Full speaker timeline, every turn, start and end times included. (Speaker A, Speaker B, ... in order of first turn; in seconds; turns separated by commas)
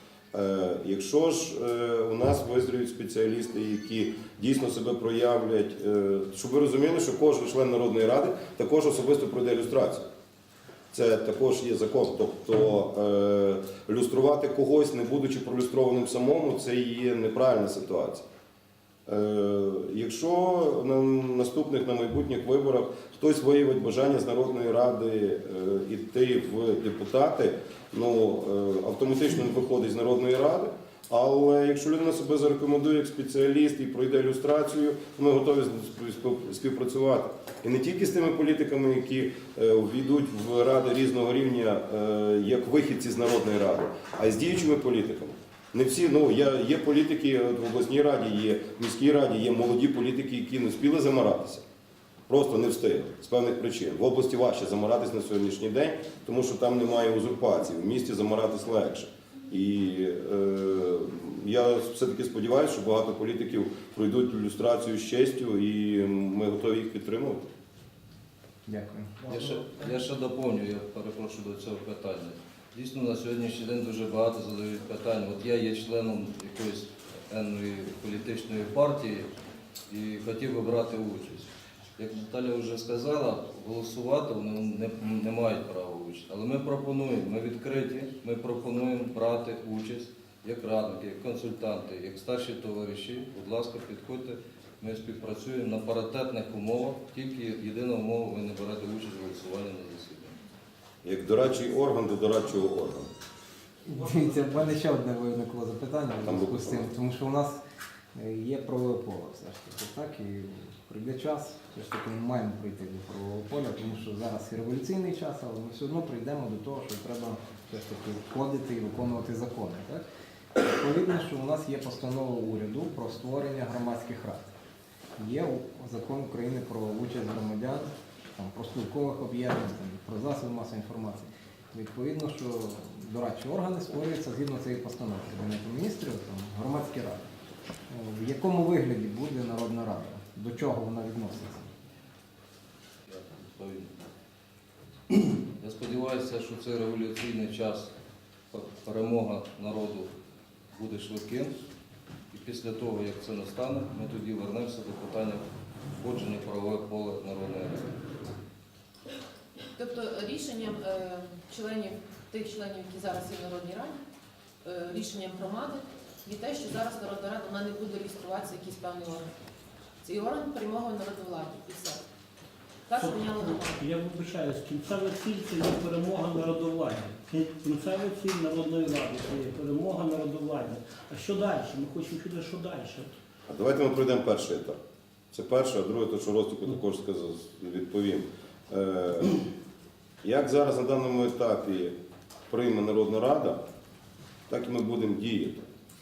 Speaker A: 0.3-10.1, Speaker A: 10.9-18.2, Speaker A: 19.1-51.6, Speaker A: 52.3-67.5, Speaker B: 68.7-69.2, Speaker C: 69.2-79.3, Speaker C: 79.9-100.3, Speaker A: 101.0-103.1, Speaker B: 103.8-107.6, Speaker A: 106.2-106.9, Speaker B: 108.1-120.0, Speaker B: 120.5-124.5, Speaker B: 125.2-137.2, Speaker B: 137.9-141.7, Speaker C: 143.1-143.9, Speaker C: 145.1-147.9, Speaker C: 148.5-150.1, Speaker C: 150.7-151.5, Speaker C: 152.3-155.4, Speaker C: 156.0-158.0, Speaker D: 159.7-164.0, Speaker D: 164.6-169.3, Speaker D: 170.0-172.0, Speaker D: 172.9-173.8, Speaker E: 172.9-183.1, Speaker A: 183.5-184.8, Speaker A: 185.3-189.4, Speaker A: 190.2-191.9, Speaker A: 192.5-193.6, Speaker A: 194.5-195.6